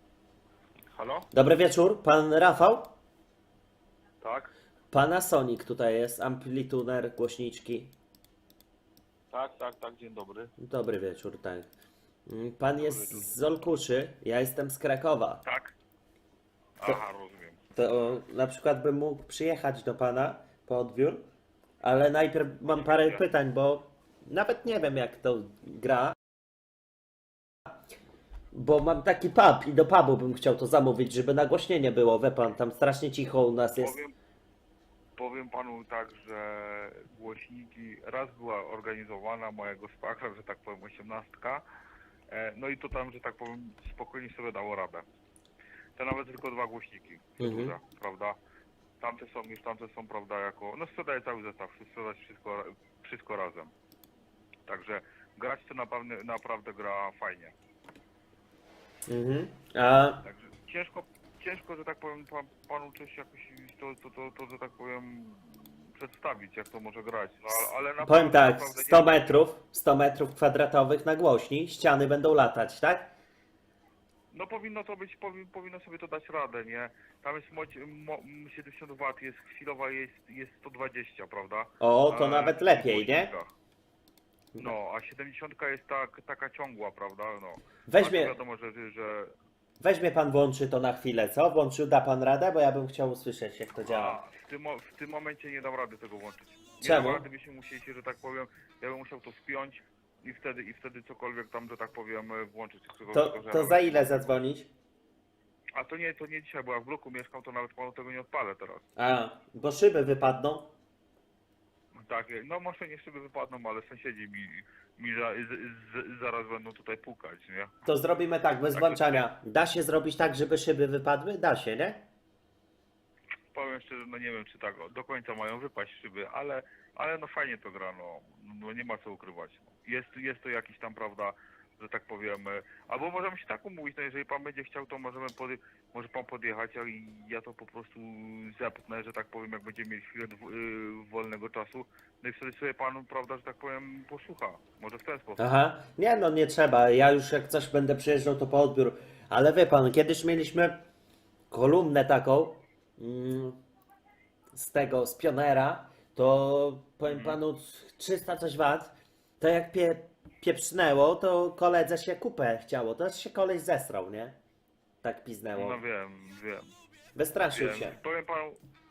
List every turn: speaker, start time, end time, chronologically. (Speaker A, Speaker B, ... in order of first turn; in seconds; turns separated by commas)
Speaker A: 0.9-1.3, Speaker B: 1.3-2.9, Speaker A: 4.2-4.5, Speaker B: 4.9-7.9, Speaker A: 9.3-10.5, Speaker B: 10.6-11.7, Speaker B: 12.3-15.4, Speaker A: 12.8-13.3, Speaker A: 15.4-15.7, Speaker A: 16.8-17.6, Speaker B: 17.8-21.2, Speaker B: 21.8-26.2, Speaker A: 22.6-23.2, Speaker B: 28.5-33.9, Speaker A: 33.8-34.1, Speaker A: 35.2-41.6, Speaker A: 42.3-45.0, Speaker A: 46.0-48.4, Speaker B: 47.4-47.7, Speaker A: 49.0-53.7, Speaker A: 54.7-57.5, Speaker B: 59.1-60.2, Speaker A: 60.2-69.3, Speaker B: 68.0-73.1, Speaker A: 74.3-83.5, Speaker B: 81.8-83.3, Speaker A: 84.6-89.3, Speaker B: 87.9-88.3, Speaker B: 89.8-94.2, Speaker A: 93.8-104.3, Speaker B: 96.8-97.2, Speaker B: 103.1-104.7, Speaker A: 105.8-108.9, Speaker B: 109.0-110.7, Speaker A: 111.9-117.7, Speaker B: 117.9-122.0, Speaker A: 118.7-119.2, Speaker A: 123.5-145.4, Speaker B: 145.4-150.8, Speaker B: 151.5-153.6, Speaker B: 154.5-164.3, Speaker A: 157.0-157.4, Speaker B: 165.0-165.8, Speaker A: 165.6-166.7, Speaker B: 167.2-168.0, Speaker A: 167.5-168.6